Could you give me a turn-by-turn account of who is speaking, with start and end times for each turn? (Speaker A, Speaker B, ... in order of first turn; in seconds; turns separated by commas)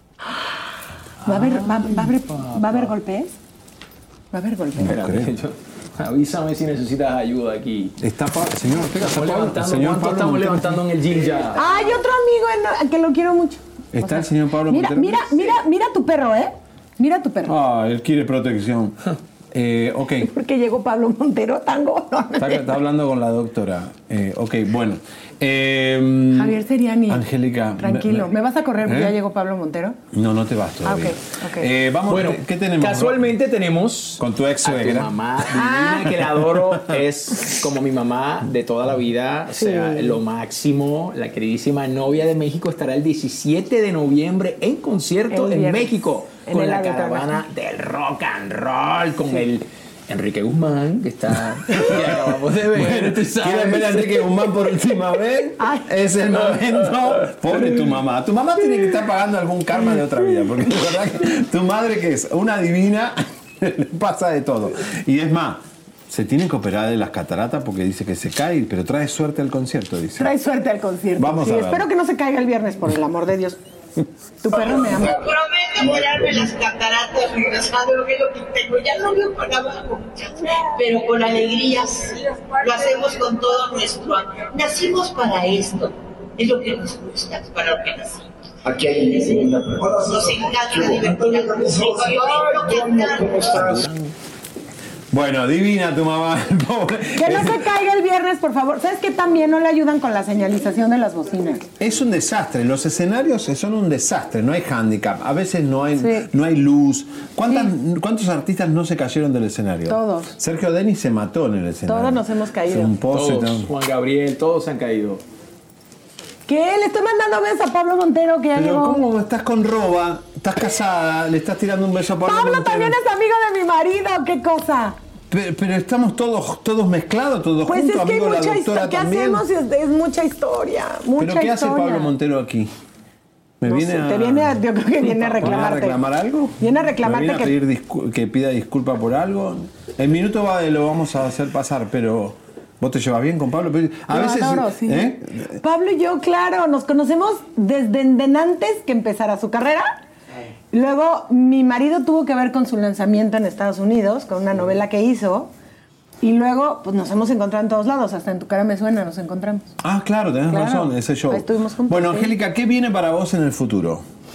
Speaker A: 0.3-0.6, Speaker B: 1.2-2.9, Speaker A: 1.2-3.3, Speaker A: 4.3-4.9, Speaker C: 4.8-5.3, Speaker B: 4.8-7.9, Speaker C: 8.0-11.1, Speaker B: 8.9-12.0, Speaker A: 11.5-17.5, Speaker C: 13.9-15.5, Speaker C: 17.4-19.0, Speaker C: 19.5-20.3, Speaker A: 20.2-22.8, Speaker C: 22.4-28.3, Speaker A: 26.3-27.2, Speaker A: 27.8-30.0, Speaker C: 28.8-29.1, Speaker C: 30.1-33.4, Speaker A: 30.8-31.7, Speaker B: 32.1-54.3, Speaker C: 34.2-37.5, Speaker A: 39.5-40.2, Speaker A: 45.3-45.9, Speaker A: 46.4-47.4, Speaker C: 51.7-70.3, Speaker A: 55.6-55.9, Speaker B: 57.5-57.8, Speaker A: 70.2-73.6, Speaker C: 71.2-71.9, Speaker A: 74.4-75.2, Speaker D: 74.9-88.2, Speaker E: 75.9-76.3, Speaker E: 88.7-93.9, Speaker D: 89.1-93.6, Speaker B: 93.6-94.1, Speaker C: 95.1-97.7, Speaker A: 97.2-101.7, Speaker C: 101.8-113.7, Speaker A: 106.0-106.3, Speaker A: 109.9-110.3, Speaker A: 111.8-113.0, Speaker B: 113.1-115.2, Speaker A: 116.5-119.0, Speaker C: 118.5-123.0, Speaker A: 122.2-125.0, Speaker C: 125.3-129.4, Speaker A: 127.7-132.1, Speaker C: 131.2-132.7, Speaker C: 133.6-145.6, Speaker A: 133.7-136.0, Speaker B: 135.4-135.7, Speaker A: 136.6-137.5, Speaker A: 144.1-149.9, Speaker A: 150.7-155.5, Speaker A: 156.2-159.7, Speaker C: 159.8-164.0, Speaker A: 160.5-162.3